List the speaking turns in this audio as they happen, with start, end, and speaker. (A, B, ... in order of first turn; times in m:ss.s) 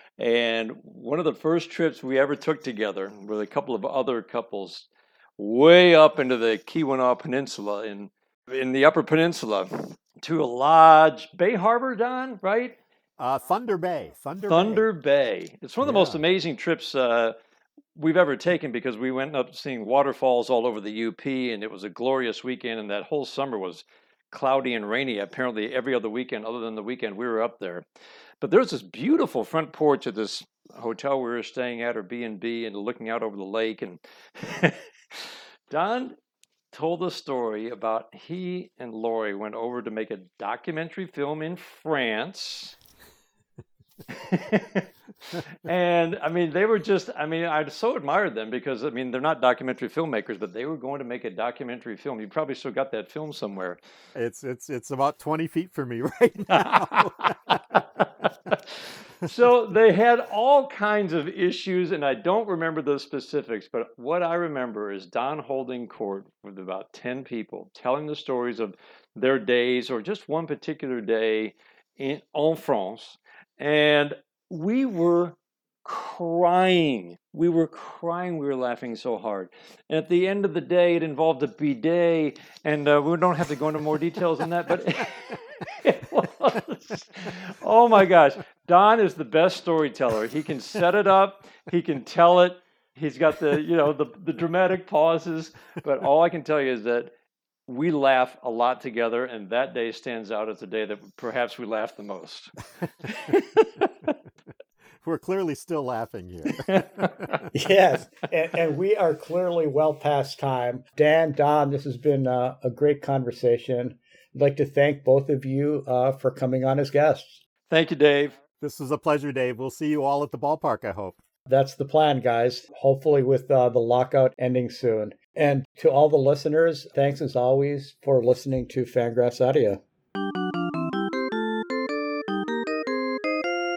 0:00.2-0:12.8 A
0:13.2-0:14.8 B
0:14.5-0:17.4 A
0:15.8-0:16.2 B
0:17.9-0:27.8 A
0:28.4-0:36.2 A
0:36.7-0:42.7 A
0:44.1-0:53.8 A
0:54.1-0:57.8 B
0:56.5-0:58.6 A
0:59.2-1:37.1 A
1:37.7-1:42.5 A
1:43.0-1:44.1 A
1:45.0-1:47.4 B
1:46.7-1:47.4 A
1:47.5-1:57.4 C
1:57.7-1:58.4 A
1:58.6-2:01.2 B
2:01.5-2:09.8 C